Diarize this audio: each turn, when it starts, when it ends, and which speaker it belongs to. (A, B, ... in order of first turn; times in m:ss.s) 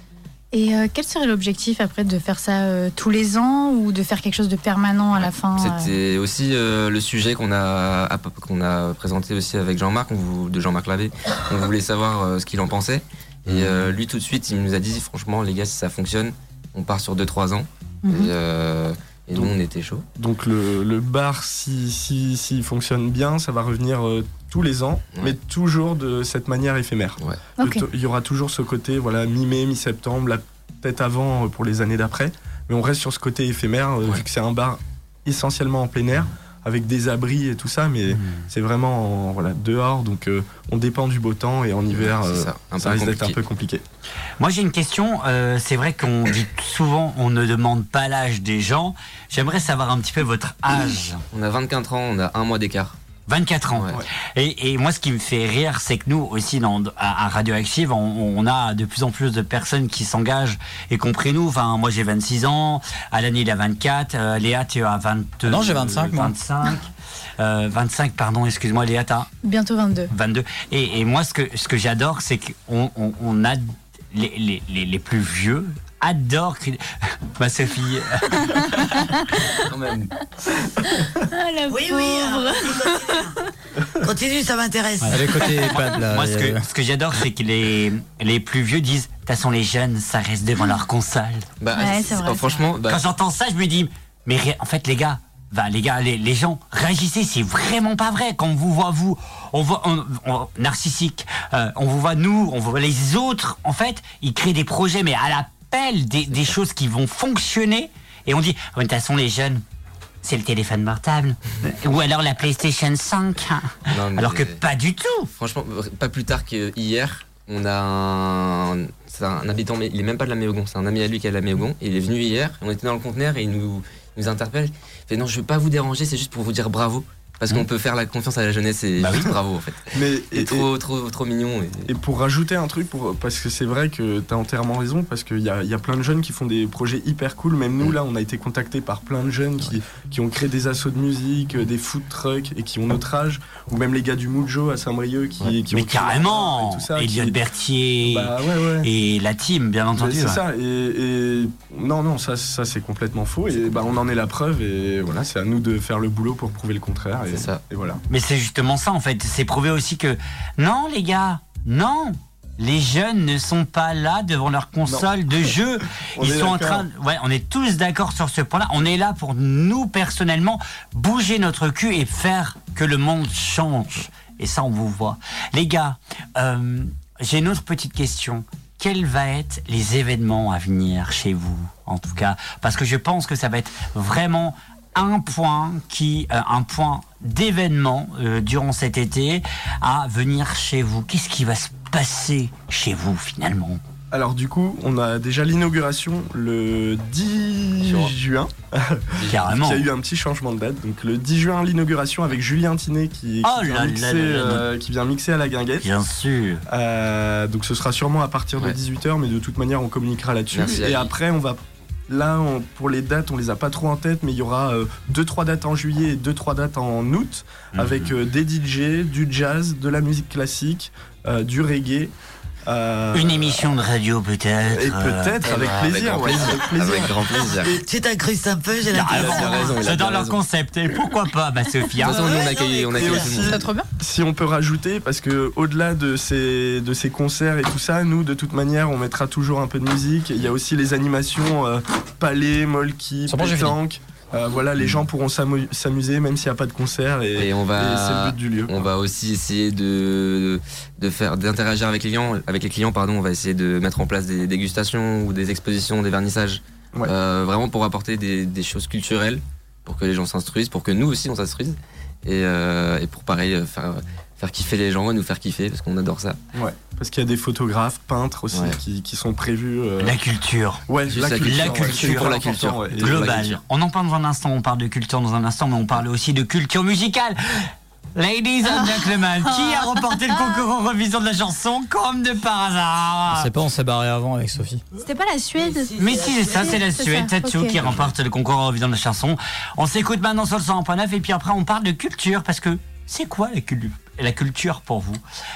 0:00.5-0:05.9 A
0:05.1-0:20.0 B
0:13.5-0:13.9 C
0:18.0-0:18.3 A
0:20.2-0:43.8 C
0:27.6-0:27.9 A
0:41.9-0:43.4 B
0:44.4-0:51.2 D
0:51.3-0:53.0 B
0:53.3-1:09.3 D
1:05.4-1:06.3 E
1:09.4-1:10.1 A
1:10.1-1:16.8 D
1:17.3-1:18.8 D
1:18.8-1:19.6 A
1:19.6-1:20.1 B
1:21.2-1:23.2 A
1:21.7-1:23.4 F
1:23.9-1:25.6 F
1:25.0-1:31.5 D
1:25.1-1:26.6 E
1:31.6-1:33.0 B
1:31.7-1:32.6 A
1:32.9-1:49.6 D
1:46.3-1:46.6 B
1:50.2-1:55.3 D
1:53.9-1:54.6 B
1:55.4-2:11.9 B
2:09.9-2:10.7 C
2:11.9-2:27.4 C
2:25.7-2:30.4 D
2:28.0-2:28.9 C
2:29.9-2:38.0 C
2:37.3-2:37.6 B
2:38.1-3:13.8 D
2:44.8-2:45.6 C
2:46.1-2:46.9 C
3:14.1-3:25.9 C
3:17.8-3:18.1 B
3:19.1-3:19.5 B
3:19.3-3:19.8 D
3:23.4-3:24.7 D
3:25.8-3:26.6 D
3:26.7-3:42.1 C
3:30.5-3:31.1 B
3:37.7-3:38.2 D
3:42.6-3:43.7 C
3:43.1-3:45.4 D
3:44.7-3:47.6 C
3:45.4-3:47.8 B
3:47.4-3:49.8 F
3:48.9-3:52.3 D
3:49.1-3:50.4 B
3:52.0-3:53.7 B
3:52.0-3:53.3 F
3:52.9-4:08.9 C
3:53.3-3:53.9 A
4:03.3-4:03.8 E
4:07.3-4:26.4 B
4:26.5-4:30.2 C
4:28.5-4:28.8 B
4:30.0-4:32.4 D
4:30.9-4:33.4 C
4:31.1-4:33.6 B
4:33.0-4:43.5 D
4:39.6-4:40.0 A
4:43.3-4:44.8 E
4:45.0-4:45.9 A
4:45.6-4:46.8 F
4:46.0-4:55.2 D
4:46.5-4:47.8 A
4:47.8-4:48.1 B